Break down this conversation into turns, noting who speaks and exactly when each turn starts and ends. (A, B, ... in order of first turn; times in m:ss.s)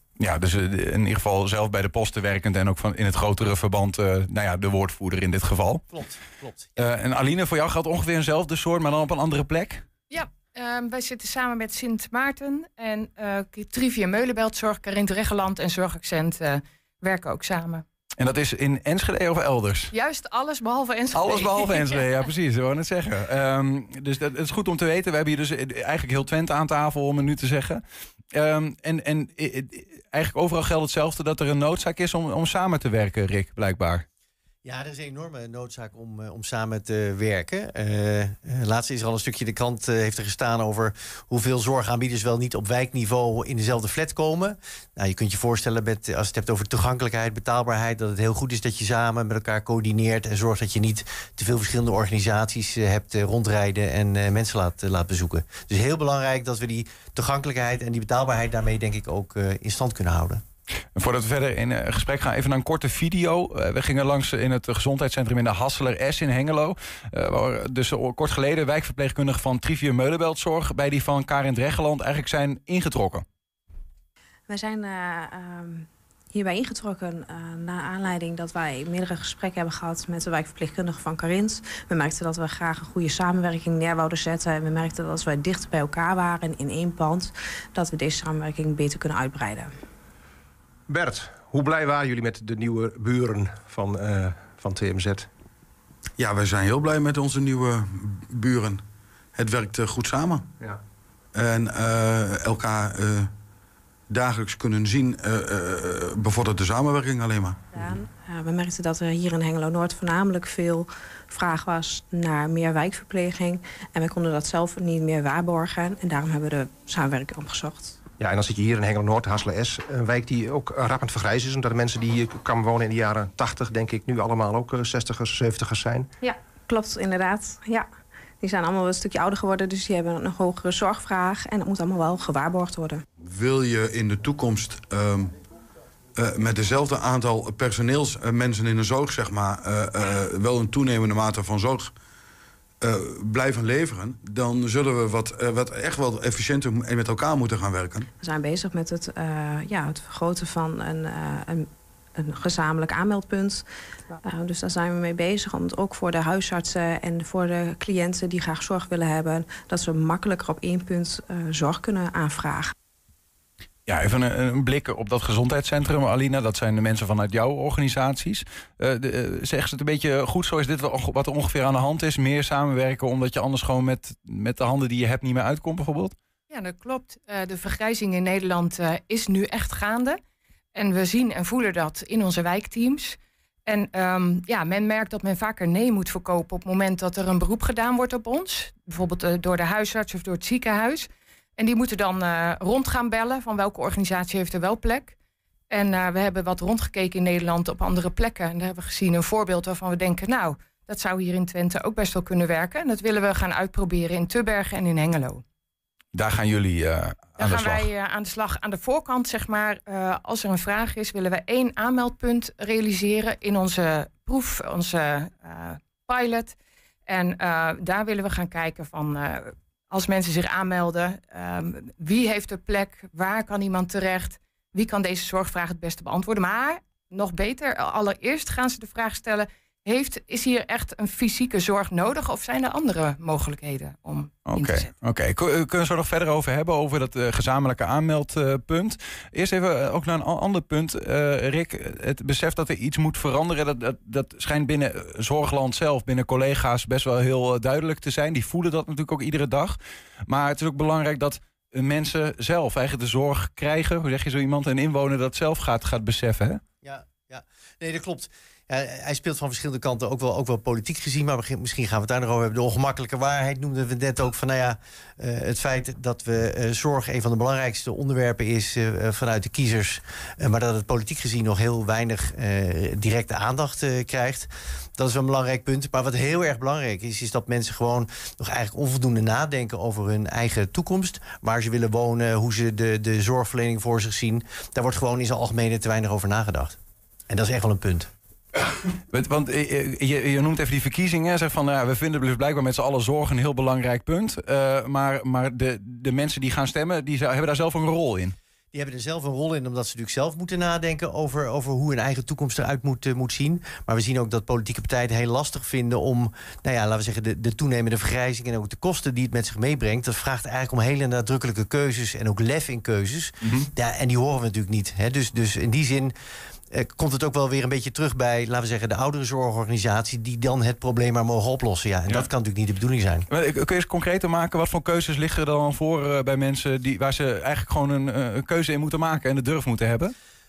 0:00.2-0:05.8 A
0:05.9-0:06.7 B
0:06.8-0:09.8 A
0:10.1-0:17.8 C
0:18.2-0:19.9 A
0:19.9-0:22.0 C
0:21.1-0:27.8 A
0:28.3-0:34.0 A
0:34.6-1:00.4 B
1:01.0-1:13.2 A
1:14.5-1:29.7 D
1:30.9-1:35.3 E
1:36.2-1:37.7 F
1:36.6-1:37.6 E
1:38.4-1:38.8 E
1:39.4-1:40.0 E
1:39.4-1:40.4 F
1:41.4-1:43.3 F
1:44.2-1:44.7 F
1:44.4-1:45.2 E
1:46.2-1:47.5 F
1:47.7-1:58.0 D
1:58.2-2:06.1 E
2:06.7-2:07.9 D
2:08.4-2:13.0 D
2:13.3-2:14.4 E
2:14.0-2:15.3 F
2:16.3-2:21.8 F
2:22.9-2:28.0 F
2:28.2-2:33.6 D
2:34.2-2:42.7 D
2:43.9-2:56.2 A
2:56.5-3:00.2 C
3:00.7-3:15.2 C
3:15.7-3:25.4 C
3:26.1-3:27.9 A
3:27.4-3:36.6 C
3:37.1-3:54.9 C
3:54.5-4:16.6 A
4:16.8-4:46.8 B
4:47.3-4:48.1 B
4:49.1-4:58.4 A
4:58.7-5:16.1 B
5:13.4-5:13.7 A
5:16.7-5:23.3 B
5:23.3-5:30.1 A